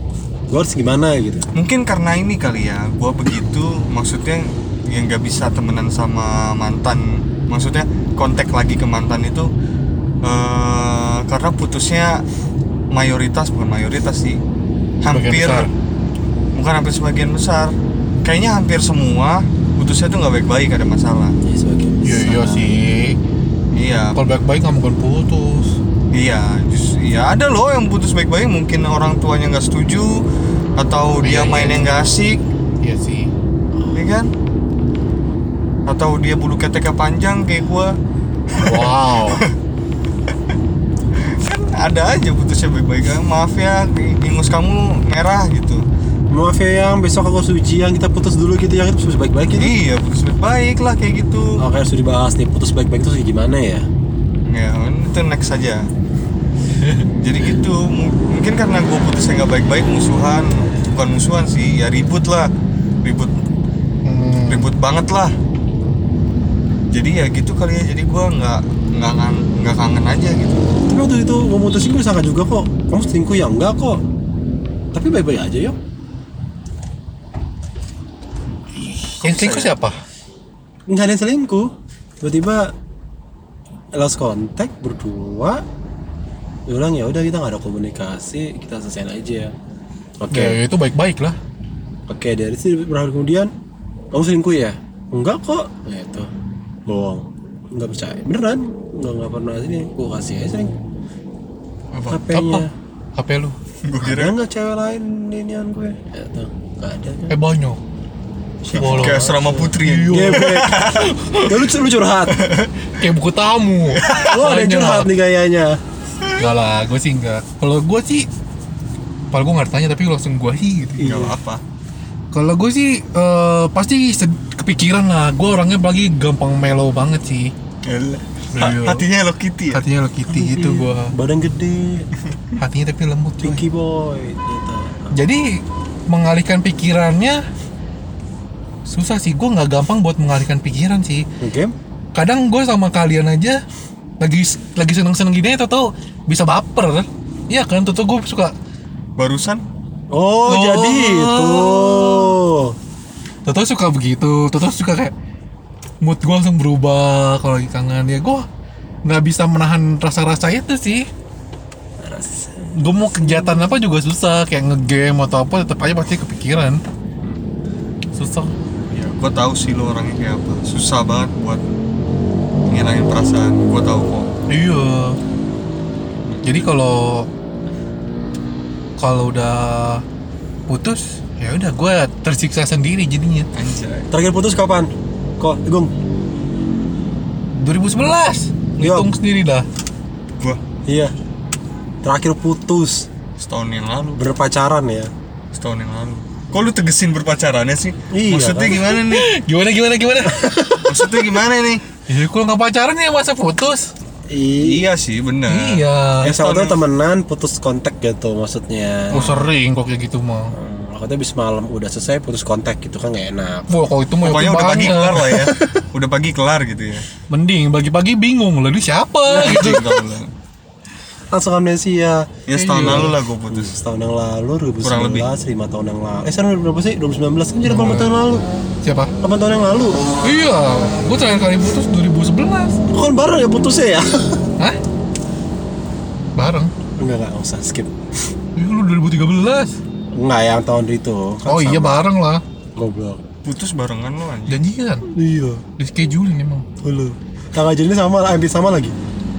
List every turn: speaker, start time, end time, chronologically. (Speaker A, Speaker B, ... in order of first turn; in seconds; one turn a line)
Speaker A: 0.5-1.5
Speaker B: 1.6-9.5
Speaker B: 10.2-12.2
Speaker B: 12.9-14.4
Speaker B: 15.0-15.7
Speaker C: 15.1-15.7
Speaker B: 16.6-21.4
Speaker A: 21.4-22.7
Speaker C: 22.0-23.2
Speaker B: 23.7-24.2
Speaker C: 24.1-25.8
Speaker B: 26.1-30.2
Speaker B: 30.8-32.4
Speaker C: 31.2-31.9
Speaker C: 32.8-33.3
Speaker B: 33.9-34.3
Speaker B: 35.9-37.9
Speaker B: 38.5-39.5
Speaker C: 38.6-39.4
Speaker B: 41.2-45.8
Speaker A: 46.3-49.7
Speaker B: 49.6-51.6
Speaker A: 51.6-53.9
Speaker B: 54.5-55.9
Speaker C: 56.8-57.1
Speaker B: 57.2-62.5
Speaker B: 63.0-63.3
Speaker C: 64.1-64.7
Speaker B: 64.5-65.3
Speaker B: 66.9-70.6
Speaker A: 70.9-74.0
Speaker A: 74.9-75.8
Speaker C: 79.1-80.0
Speaker B: 79.3-79.6
Speaker A: 80.9-82.7
Speaker A: 84.0-85.6
Speaker A: 86.7-89.5
Speaker A: 90.2-90.6
Speaker C: 90.3-91.4
Speaker A: 92.1-93.5
Speaker A: 94.1-96.3
Speaker A: 96.9-100.8
Speaker B: 101.9-102.2
Speaker A: 102.1-102.7
Speaker C: 102.3-103.6
Speaker B: 103.8-104.3
Speaker A: 104.0-107.3
Speaker C: 107.3-107.8
Speaker A: 108.6-110.8
Speaker B: 108.7-111.1
Speaker C: 108.7-111.6
Speaker A: 111.5-112.4
Speaker B: 112.3-112.7
Speaker C: 113.0-115.1
Speaker B: 114.0-114.3
Speaker A: 114.2-115.8
Speaker C: 116.4-118.3
Speaker C: 119.3-121.2
Speaker A: 121.0-121.3
Speaker B: 121.0-121.6
Speaker C: 122.3-127.5
Speaker B: 127.8-129.8
Speaker C: 128.5-129.1
Speaker C: 129.7-131.1
Speaker A: 130.3-132.1
Speaker C: 132.6-133.6
Speaker A: 133.4-135.1
Speaker C: 135.1-137.4
Speaker C: 138.9-141.3
Speaker A: 141.4-141.7
Speaker C: 142.2-143.6
Speaker C: 144.2-148.5
Speaker B: 149.2-149.6
Speaker A: 150.1-152.8
Speaker C: 150.5-152.3
Speaker C: 153.5-155.1
Speaker C: 156.0-158.5
Speaker C: 159.1-161.1
Speaker A: 162.0-163.8
Speaker C: 162.8-166.8
Speaker C: 168.2-168.5
Speaker B: 168.9-171.6
Speaker B: 172.7-174.3
Speaker C: 174.5-175.2
Speaker B: 176.3-176.7
Speaker C: 176.4-177.3
Speaker C: 179.0-180.0
Speaker C: 180.7-183.5
Speaker B: 183.5-184.1
Speaker A: 184.1-185.9
Speaker C: 187.6-189.7
Speaker A: 188.8-189.1
Speaker A: 190.9-191.1
Speaker A: 192.0-193.1
Speaker B: 193.4-194.2
Speaker A: 194.2-195.1
Speaker B: 195.5-199.3
Speaker A: 198.1-198.8
Speaker C: 198.7-201.2
Speaker B: 200.9-201.8
Speaker C: 202.1-203.9
Speaker A: 204.3-204.9
Speaker B: 204.6-206.8
Speaker C: 205.5-206.3
Speaker A: 206.2-209.2
Speaker C: 209.1-210.5
Speaker B: 209.1-209.5
Speaker A: 210.5-213.7
Speaker C: 213.7-215.5
Speaker B: 214.2-217.1
Speaker C: 217.3-219.9
Speaker A: 219.3-219.8
Speaker B: 219.3-220.3
Speaker A: 221.3-222.3
Speaker B: 222.5-223.7
Speaker C: 222.5-223.2
Speaker A: 223.5-228.4
Speaker B: 224.8-225.3
Speaker C: 227.6-228.1
Speaker C: 228.8-229.1
Speaker A: 229.2-230.0
Speaker C: 230.2-232.8
Speaker A: 232.9-234.4
Speaker C: 236.4-236.7
Speaker A: 237.0-237.9
Speaker C: 238.6-239.8
Speaker A: 240.1-242.0
Speaker C: 241.5-242.4
Speaker A: 242.8-243.2
Speaker B: 243.4-244.6
Speaker C: 244.5-245.1
Speaker A: 245.1-245.6
Speaker C: 245.8-246.7
Speaker A: 246.8-248.9